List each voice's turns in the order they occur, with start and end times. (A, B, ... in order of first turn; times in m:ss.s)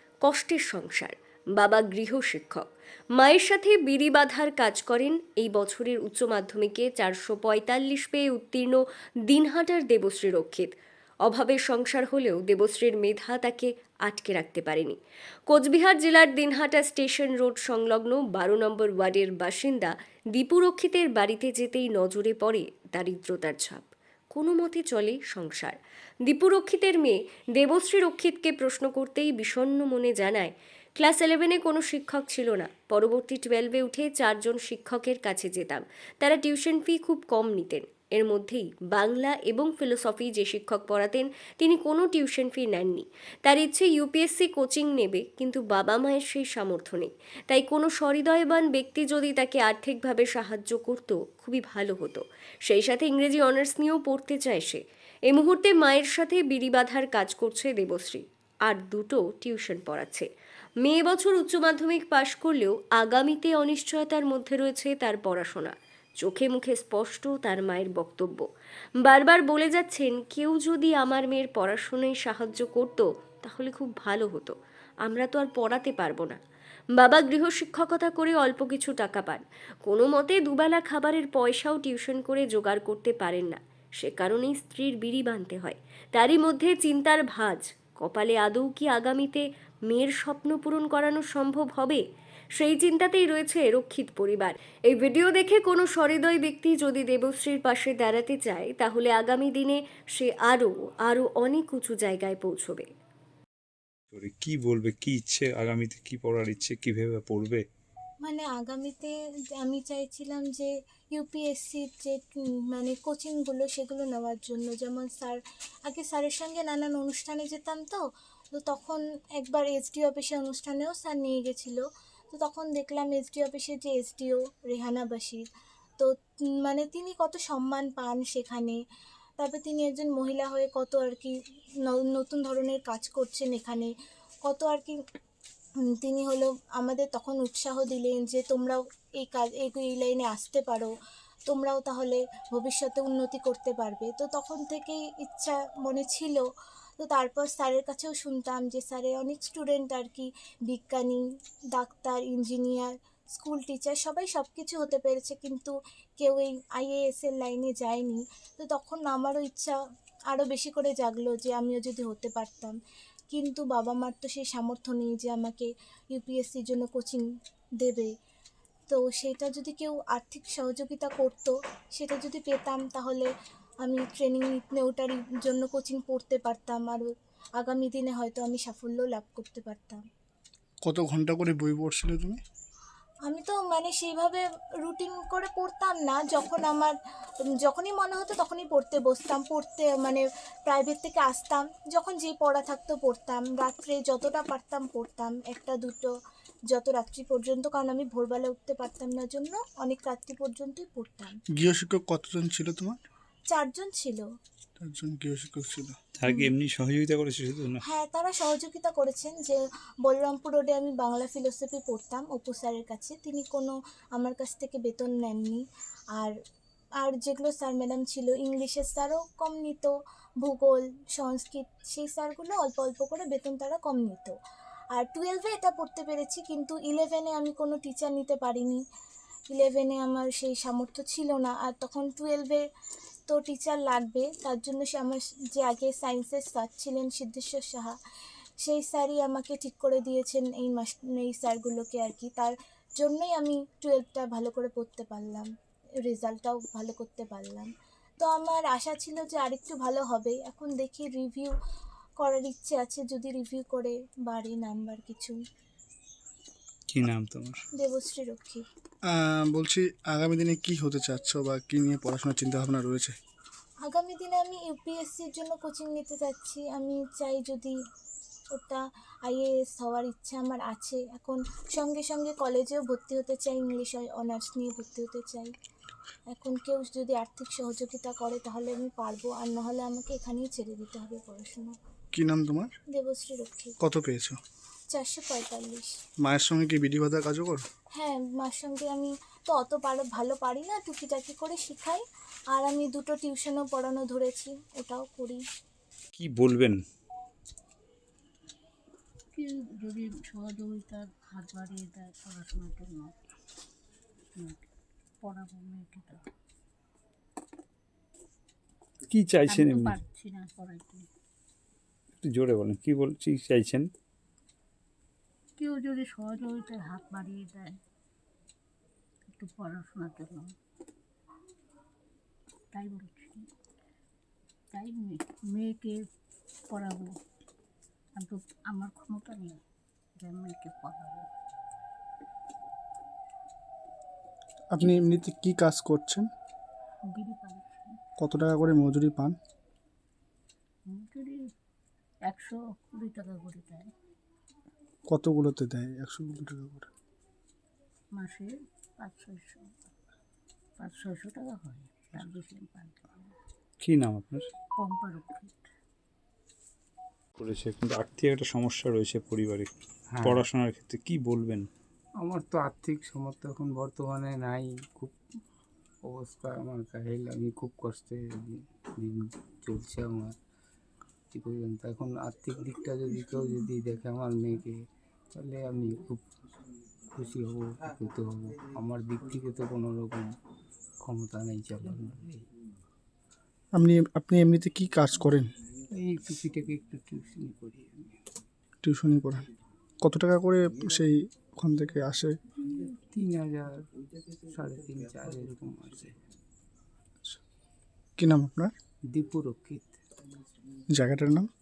0:00.2-0:10.7 A
0:11.2-0:15.0 A
0:15.5-1:00.3 A
1:00.8-1:08.5 A
1:09.0-1:16.4 A
1:17.0-1:32.0 A
1:32.6-1:42.9 A
1:44.1-1:47.6 B
1:48.2-1:58.0 C
1:58.6-2:05.4 C
2:06.6-2:08.8 C
2:09.4-2:13.9 C
2:14.4-2:15.0 C
2:16.0-2:20.9 C
2:21.5-2:26.4 C
2:27.0-2:31.2 C
2:31.8-2:39.8 C
2:40.3-2:42.8 C
2:43.3-2:47.2 C
2:47.8-2:48.1 C
2:48.9-2:53.3 C
2:53.8-2:57.1 C
2:57.6-3:00.0 C
3:00.8-3:02.4 D
3:03.2-3:06.9 C
3:07.6-3:16.1 C
3:16.7-3:21.3 C
3:21.6-3:23.0 D
3:23.5-3:24.2 C
3:24.8-3:25.9 D
3:26.2-3:27.8 B
3:27.8-3:35.6 C
3:37.0-3:44.4 C
3:44.9-3:48.8 C
3:49.5-3:52.6 C
3:53.3-3:57.9 C
3:58.6-4:05.5 C
4:06.1-4:07.7 C
4:08.2-4:11.5 C
4:12.2-4:15.4 C
4:16.9-4:17.6 B
4:17.8-4:18.6 C
4:19.1-4:23.1 D
4:23.9-4:27.8 C
4:28.5-4:35.5 C
4:36.3-4:41.8 C
4:42.1-4:42.7 D
4:42.9-4:43.8 C
4:43.8-4:44.4 D
4:44.9-4:45.9 C
4:46.2-4:47.6 D
4:48.0-4:55.4 C
4:56.1-4:56.8 B
4:59.4-5:03.1 E
5:04.4-5:04.6 E
5:05.2-5:06.2 E
5:09.1-5:10.0 B
5:09.5-5:11.0 E
5:12.2-5:13.9 B
5:15.6-5:17.8 E
5:19.4-5:20.5 E
5:22.7-5:23.4 E
5:24.7-5:26.0 E
5:26.7-5:27.1 E
5:28.2-5:29.6 E
5:30.2-5:31.2 E
5:34.7-5:36.3 D
5:37.1-5:37.9 E
5:38.2-5:39.4 D
5:40.9-5:41.4 E
5:42.3-5:43.9 E
5:45.1-5:46.9 D
5:48.2-5:49.7 E
5:50.8-5:53.3 E
5:53.8-5:54.5 B
5:54.8-5:55.6 E
5:57.4-5:59.7 B
6:00.1-6:00.4 F
6:00.2-6:01.7 B
6:02.2-6:05.1 F
6:06.0-6:10.3 F
6:11.3-6:14.8 F
6:15.3-6:16.2 F
6:17.1-6:20.3 F
6:21.0-6:22.4 F
6:23.8-6:25.5 D
6:25.9-6:28.1 F
6:28.8-6:29.4 D
6:30.0-6:32.4 D
6:33.1-6:33.8 F
6:34.5-6:36.2 F
6:38.2-6:38.7 D
6:39.1-6:40.0 F
6:40.9-6:41.5 D